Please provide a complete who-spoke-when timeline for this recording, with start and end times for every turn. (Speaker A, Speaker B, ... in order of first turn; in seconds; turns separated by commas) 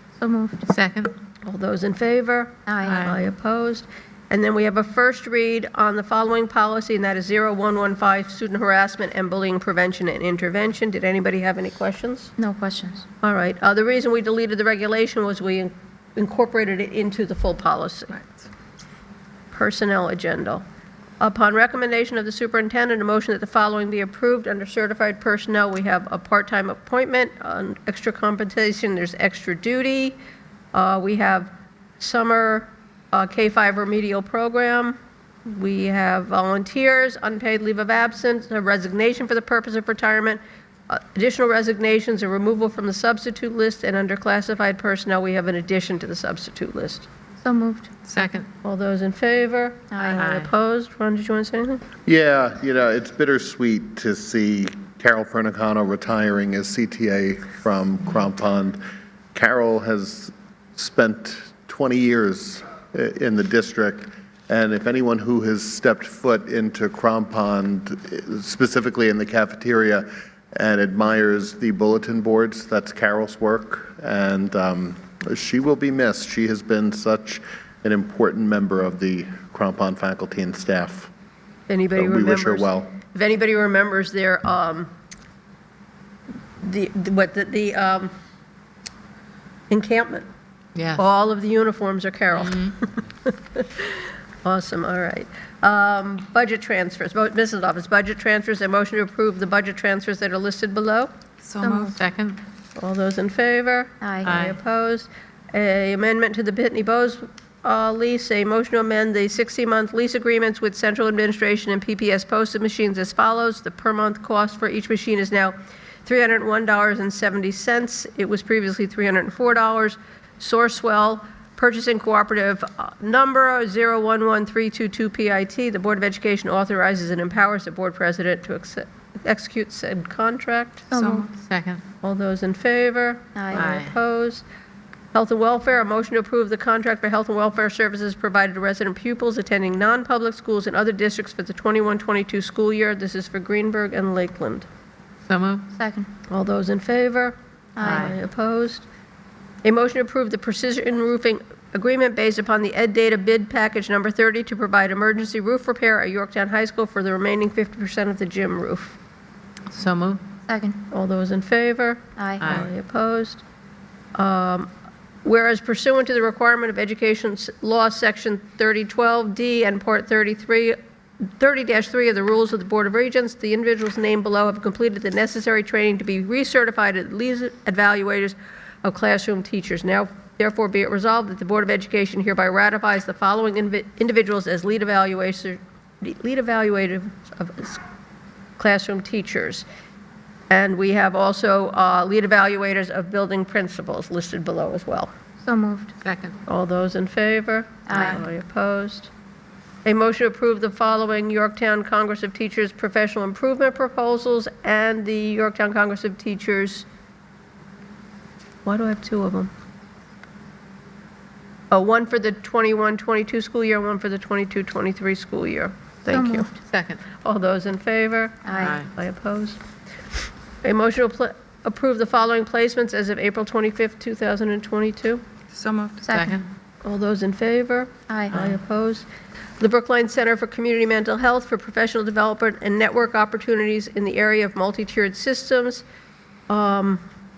Speaker A: 0.2-0.6, Speaker B: 0.7-1.1, Speaker C: 1.4-12.3, Speaker A: 2.7-3.1, Speaker B: 2.8-3.2, Speaker A: 12.4-13.0, Speaker C: 13.2-18.3, Speaker C: 19.5-20.6, Speaker C: 21.2-30.2, Speaker C: 30.7-47.1, Speaker A: 47.4-47.9, Speaker B: 48.0-48.5, Speaker C: 48.6-51.8, Speaker A: 49.9-50.2, Speaker B: 50.2-50.5, Speaker D: 52.1-58.8, Speaker D: 59.3-81.1, Speaker C: 81.7-84.9, Speaker D: 82.0-82.9, Speaker C: 86.6-88.1, Speaker C: 89.7-90.3, Speaker B: 90.7-91.0, Speaker C: 91.0-101.1, Speaker B: 101.4-102.4, Speaker A: 101.6-101.9, Speaker C: 102.8-130.9, Speaker A: 104.0-104.3, Speaker B: 104.2-104.5, Speaker A: 130.9-131.3, Speaker B: 130.9-131.8, Speaker C: 132.0-134.4, Speaker A: 133.3-133.7, Speaker B: 133.5-133.9, Speaker C: 135.1-144.7, Speaker B: 145.3-145.7, Speaker A: 145.7-146.1, Speaker C: 146.3-148.8, Speaker A: 147.8-148.1, Speaker B: 147.8-148.2, Speaker C: 149.6-159.0, Speaker B: 159.7-160.2, Speaker A: 160.5-160.8, Speaker C: 160.9-163.4, Speaker A: 162.2-162.4, Speaker B: 162.4-162.7, Speaker C: 164.1-164.7, Speaker C: 165.2-187.8, Speaker C: 188.6-189.6, Speaker C: 190.5-195.1, Speaker A: 195.4-195.9, Speaker B: 196.0-196.3, Speaker C: 196.5-199.1, Speaker A: 197.9-198.2, Speaker C: 199.8-206.9, Speaker C: 208.6-209.5, Speaker C: 211.7-216.5, Speaker A: 216.1-216.6, Speaker B: 216.7-217.0, Speaker C: 217.2-219.6, Speaker A: 218.4-218.8, Speaker B: 218.6-218.9, Speaker C: 220.6-225.2, Speaker B: 225.5-226.5, Speaker A: 226.0-226.4, Speaker C: 226.8-229.1, Speaker A: 228.1-228.3, Speaker B: 228.3-228.6, Speaker C: 229.6-235.8, Speaker C: 236.5-237.0